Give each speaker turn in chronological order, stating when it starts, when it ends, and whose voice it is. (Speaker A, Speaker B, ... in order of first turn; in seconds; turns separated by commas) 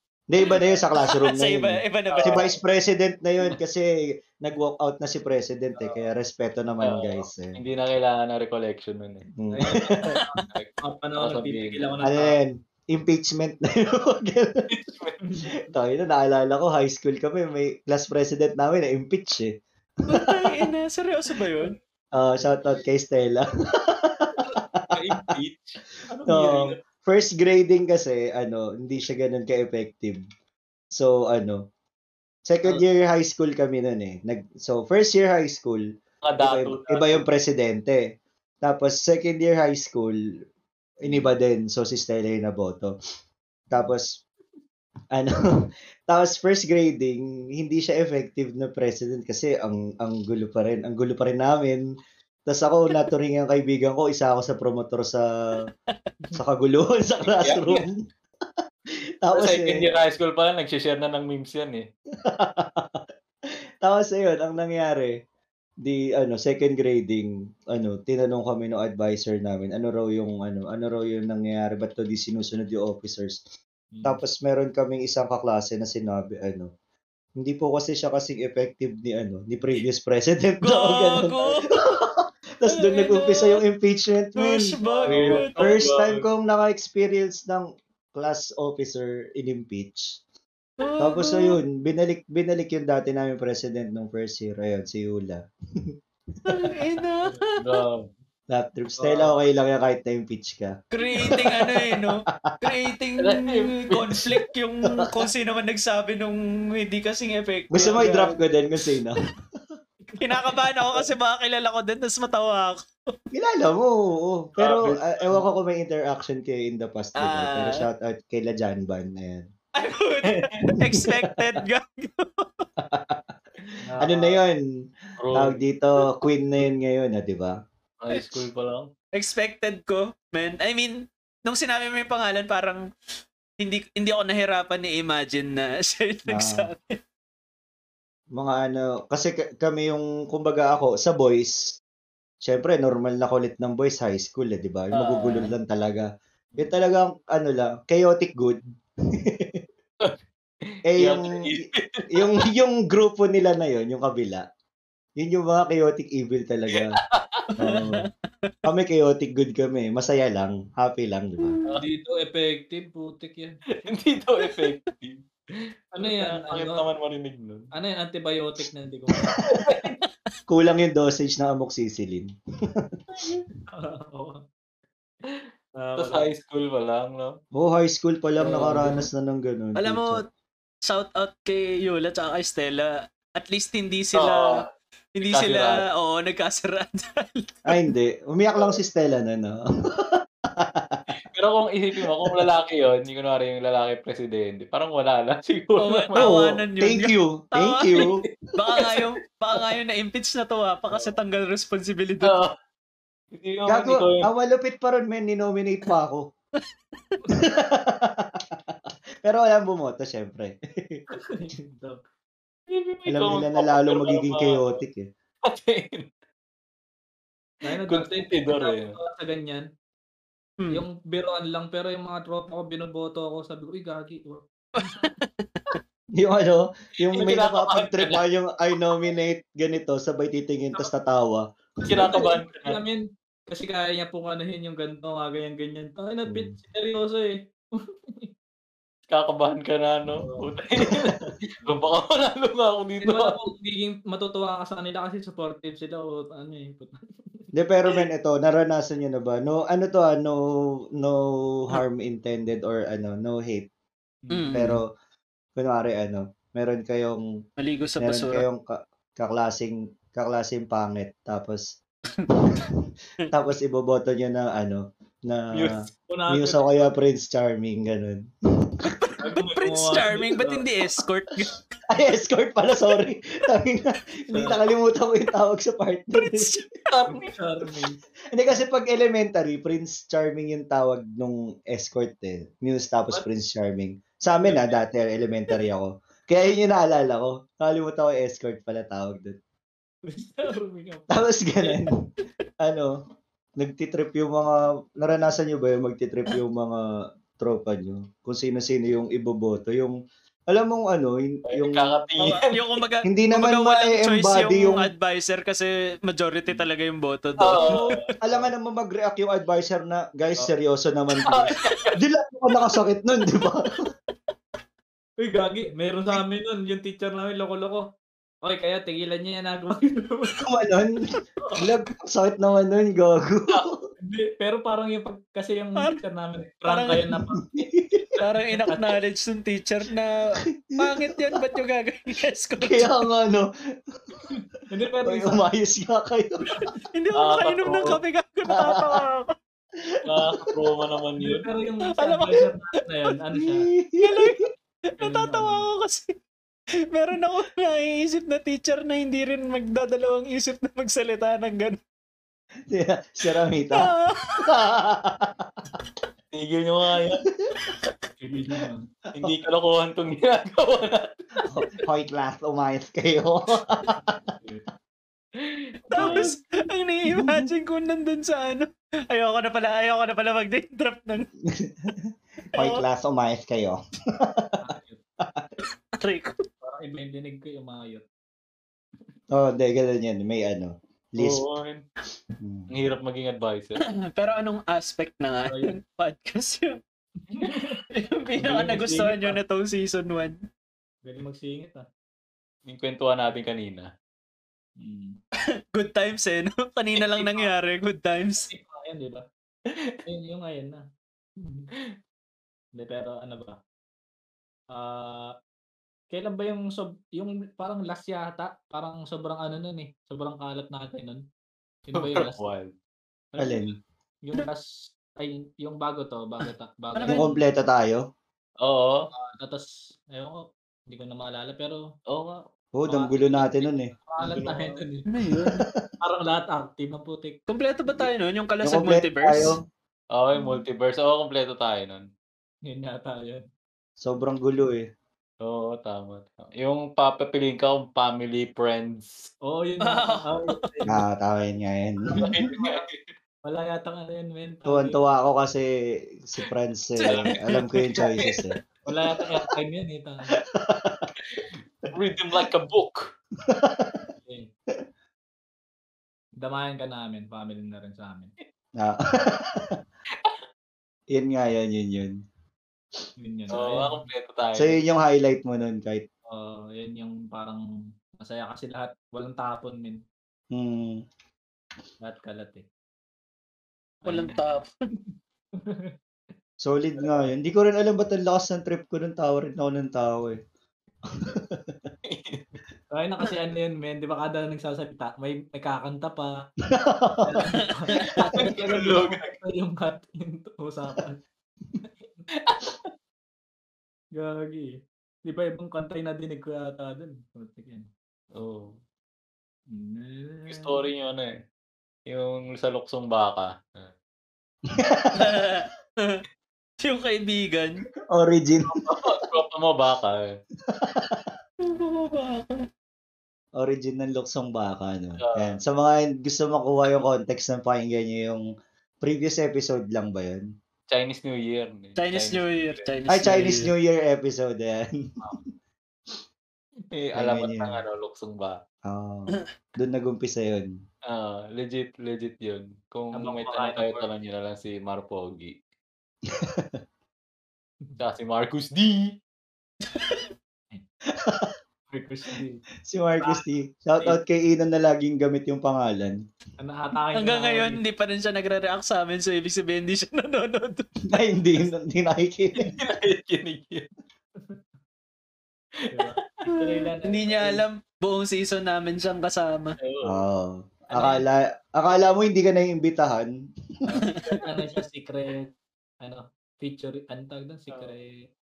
Speaker A: 0.3-7.6, Speaker B: 1.0-2.5, Speaker C: 6.8-9.3, Speaker A: 9.4-10.2, Speaker D: 9.5-12.4, Speaker C: 10.5-11.8, Speaker A: 12.0-14.7, Speaker C: 14.7-15.2, Speaker D: 15.2-15.5, Speaker A: 15.7-19.5, Speaker B: 20.1-21.7, Speaker A: 20.1-20.6, Speaker A: 22.1-25.3, Speaker C: 24.9-26.7, Speaker A: 26.3-30.2, Speaker A: 30.9-31.6, Speaker A: 32.5-35.8, Speaker C: 36.2-37.2, Speaker A: 36.4-38.0, Speaker A: 38.6-40.1, Speaker A: 41.0-42.9, Speaker A: 43.7-44.1, Speaker A: 45.1-51.8, Speaker A: 52.5-55.2, Speaker A: 56.4-58.0, Speaker C: 57.2-57.8, Speaker A: 59.2-59.8, Speaker C: 59.3-61.9, Speaker A: 62.2-63.0, Speaker A: 63.8-65.1, Speaker A: 65.8-73.4, Speaker D: 73.9-74.2, Speaker A: 74.0-76.7, Speaker A: 77.4-90.2, Speaker B: 80.6-81.9, Speaker B: 82.7-83.6, Speaker B: 84.4-85.6, Speaker C: 85.1-86.2, Speaker B: 90.8-91.6, Speaker A: 91.0-96.7, Speaker B: 96.5-97.8, Speaker C: 97.6-98.1, Speaker A: 98.5-102.7, Speaker D: 99.0-99.4, Speaker B: 100.9-108.4, Speaker C: 103.2-104.4, Speaker A: 105.0-105.2, Speaker A: 107.7-109.2, Speaker B: 110.2-113.1, Speaker A: 113.3-119.5, Speaker C: 114.6-115.4, Speaker B: 117.2-117.8, Speaker B: 119.7-122.7, Speaker C: 120.3-120.8, Speaker A: 122.8-123.2, Speaker D: 123.8-124.4, Speaker A: 124.0-124.6, Speaker C: 125.2-125.6, Speaker A: 125.3-127.5, Speaker C: 128.0-128.9, Speaker B: 129.1-132.8, Speaker B: 133.6-136.9, Speaker A: 136.3-136.7, Speaker A: 138.3-141.8, Speaker A: 142.4-148.6, Speaker B: 145.0-145.3, Speaker A: 149.1-149.6, Speaker A: 150.9-151.5, Speaker C: 151.0-152.4, Speaker A: 152.1-154.4, Speaker A: 155.2-157.0, Speaker C: 156.7-157.5, Speaker A: 157.6-158.1, Speaker B: 157.6-158.5, Speaker A: 158.6-161.6, Speaker D: 161.8-163.6, Speaker C: 163.8-165.2, Speaker B: 164.4-164.7, Speaker D: 165.9-166.8, Speaker C: 166.0-167.7, Speaker D: 167.7-169.3, Speaker C: 169.6-169.9, Speaker A: 170.5-173.2, Speaker D: 173.7-174.4, Speaker C: 175.3-177.4, Speaker D: 175.8-176.3, Speaker A: 177.6-180.2, Speaker D: 178.5-178.9, Speaker C: 178.6-179.0, Speaker B: 179.8-180.3, Speaker B: 180.8-184.6, Speaker C: 184.1-184.6, Speaker B: 185.1-187.8, Speaker C: 185.2-185.8, Speaker A: 187.7-191.2, Speaker C: 191.3-196.3, Speaker B: 195.8-198.0, Speaker A: 196.2-198.2, Speaker B: 198.5-202.4, Speaker C: 198.8-199.0, Speaker C: 202.2-202.5, Speaker C: 203.3-204.3, Speaker A: 203.7-206.2, Speaker A: 207.3-211.0, Speaker D: 211.2-212.0, Speaker C: 212.7-214.8, Speaker A: 213.1-215.1, Speaker C: 215.5-216.1, Speaker D: 217.6-219.7, Speaker C: 217.8-218.9, Speaker D: 220.7-224.4, Speaker B: 224.8-225.8, Speaker A: 226.2-232.2, Speaker C: 227.0-228.2, Speaker C: 231.8-232.8, Speaker D: 231.9-238.3, Speaker A: 236.3-236.5, Speaker C: 239.1-243.3, Speaker D: 240.2-240.5, Speaker A: 240.8-241.3, Speaker D: 243.0-247.5, Speaker A: 247.5-250.4, Speaker A: 251.0-253.7, Speaker D: 254.2-254.7, Speaker B: 254.3-254.7, Speaker A: 254.5-254.8, Speaker A: 255.6-257.2, Speaker B: 257.6-258.4, Speaker A: 258.0-261.7, Speaker B: 262.2-262.7, Speaker A: 262.4-262.7, Speaker A: 263.3-265.7, Speaker D: 266.1-266.9, Speaker A: 266.3-268.9, Speaker B: 268.8-271.7, Speaker D: 269.2-270.6, Speaker A: 271.9-276.6, Speaker D: 274.3-274.6, Speaker B: 276.2-276.7, Speaker C: 276.9-277.3, Speaker D: 277.1-278.0, Speaker A: 278.3-289.4, Speaker D: 290.1-291.7, Speaker A: 291.1-292.0, Speaker A: 292.6-292.9, Speaker A: 293.6-296.8, Speaker A: 297.4-300.0, Speaker A: 300.5-301.9, Speaker C: 301.5-302.8, Speaker B: 302.2-307.9, Speaker A: 303.1-304.9, Speaker C: 307.4-308.0, Speaker D: 307.6-307.9, Speaker A: 308.2-313.9, Speaker C: 311.2-312.0, Speaker D: 315.2-317.8, Speaker D: 318.4-320.4, Speaker A: 320.4-323.8, Speaker D: 324.0-327.4, Speaker B: 326.7-327.1, Speaker A: 327.4-328.1, Speaker B: 328.2-332.9, Speaker D: 328.6-328.9, Speaker A: 330.7-331.4, Speaker A: 332.6-333.5, Speaker D: 334.3-335.4, Speaker A: 335.1-336.6, Speaker B: 336.8-339.3, Speaker C: 337.1-338.0, Speaker A: 338.5-339.0, Speaker A: 339.8-340.5, Speaker C: 340.1-341.4, Speaker D: 341.2-343.7, Speaker B: 341.9-342.5, Speaker A: 343.4-344.4, Speaker B: 344.0-346.1, Speaker D: 345.0-345.6, Speaker B: 346.9-351.8, Speaker A: 352.7-353.9, Speaker B: 353.7-354.5, Speaker A: 354.4-355.7, Speaker C: 356.3-357.2, Speaker B: 357.6-357.9, Speaker D: 358.2-358.9, Speaker C: 359.1-361.1, Speaker A: 361.4-364.2, Speaker C: 365.4-366.3, Speaker B: 365.9-371.3, Speaker D: 366.0-366.2, Speaker A: 367.1-367.5, Speaker A: 371.5-374.6, Speaker B: 372.5-372.8, Speaker D: 374.6-375.0, Speaker A: 375.2-375.5, Speaker B: 376.0-376.4, Speaker D: 376.6-378.0, Speaker A: 379.3-381.4, Speaker C: 381.2-381.8, Speaker A: 382.4-382.7, Speaker C: 382.7-383.8, Speaker B: 384.1-386.8, Speaker D: 385.5-385.7, Speaker D: 387.3-387.8, Speaker B: 387.9-390.4, Speaker D: 388.4-389.4, Speaker D: 391.0-391.8, Speaker C: 392.7-393.9, Speaker D: 394.8-395.2, Speaker B: 395.7-398.5, Speaker D: 397.1-397.5, Speaker D: 398.4-399.2, Speaker C: 399.7-399.9, Speaker D: 400.0-400.8, Speaker D: 401.4-401.7, Speaker D: 402.7-403.6, Speaker D: 404.7-405.3, Speaker D: 406.1-411.2, Speaker D: 411.9-412.4, Speaker C: 411.9-412.7, Speaker D: 413.3-417.4, Speaker A: 413.4-413.7, Speaker B: 416.9-417.2, Speaker A: 417.1-418.0, Speaker C: 418.6-419.1, Speaker D: 419.1-421.8, Speaker C: 422.1-422.4, Speaker A: 422.7-423.9, Speaker D: 422.9-425.0, Speaker C: 424.2-424.8, Speaker B: 425.1-425.6, Speaker A: 425.3-425.8, Speaker D: 426.0-427.4, Speaker B: 427.5-429.6, Speaker A: 428.6-429.6, Speaker C: 430.1-432.0, Speaker D: 432.7-433.4, Speaker A: 434.0-434.8, Speaker C: 435.4-439.3, Speaker D: 439.4-441.0, Speaker B: 439.8-440.8, Speaker A: 440.9-442.5, Speaker C: 442.1-443.1, Speaker D: 442.5-442.8, Speaker D: 443.4-445.0, Speaker A: 444.7-445.7, Speaker A: 446.2-448.6, Speaker B: 447.0-448.1, Speaker C: 447.1-447.5, Speaker D: 448.9-450.3, Speaker A: 450.5-451.1, Speaker C: 451.2-453.1, Speaker A: 453.5-454.1, Speaker D: 454.2-454.5, Speaker D: 456.4-458.3, Speaker A: 458.8-459.8, Speaker A: 461.1-462.1, Speaker D: 463.2-464.0, Speaker C: 463.5-464.8, Speaker A: 464.6-466.0, Speaker D: 466.3-467.6, Speaker D: 468.2-470.0, Speaker A: 470.5-471.0, Speaker D: 472.0-472.6, Speaker D: 474.0-474.4, Speaker B: 474.0-474.7, Speaker D: 475.6-475.9, Speaker A: 476.6-480.4, Speaker D: 477.0-477.3, Speaker A: 481.1-481.7, Speaker C: 482.0-482.6, Speaker D: 482.9-486.4, Speaker A: 486.6-487.4, Speaker D: 487.2-491.2, Speaker B: 487.8-488.4, Speaker C: 487.9-489.3, Speaker C: 492.4-492.9, Speaker D: 494.1-497.9, Speaker C: 498.3-498.8, Speaker D: 499.7-500.8, Speaker C: 500.5-501.4, Speaker C: 502.1-503.9, Speaker A: 504.7-505.3, Speaker B: 505.1-506.2, Speaker B: 506.8-507.8, Speaker A: 508.1-509.3, Speaker C: 508.7-510.4, Speaker A: 510.7-511.3, Speaker B: 511.6-512.6, Speaker A: 513.6-518.4, Speaker C: 515.2-515.6, Speaker A: 519.0-520.4, Speaker C: 520.9-522.9, Speaker B: 522.0-523.7, Speaker A: 523.1-525.4, Speaker C: 526.9-528.6, Speaker A: 527.1-527.8, Speaker A: 528.9-530.7, Speaker C: 531.1-535.5, Speaker D: 533.1-534.0, Speaker A: 536.3-536.8, Speaker C: 538.0-539.1, Speaker B: 539.9-540.2, Speaker A: 541.1-541.5, Speaker D: 541.9-542.6, Speaker A: 542.8-546.2, Speaker D: 543.2-543.5, Speaker D: 546.6-547.8, Speaker B: 547.1-550.9, Speaker A: 551.1-552.7, Speaker C: 552.6-553.9, Speaker D: 555.9-557.6, Speaker C: 556.0-556.2, Speaker B: 556.7-559.7, Speaker C: 559.8-560.2, Speaker A: 560.0-563.3, Speaker D: 560.9-561.2, Speaker D: 563.9-565.5, Speaker B: 564.1-564.4, Speaker D: 566.0-568.2, Speaker C: 567.7-568.0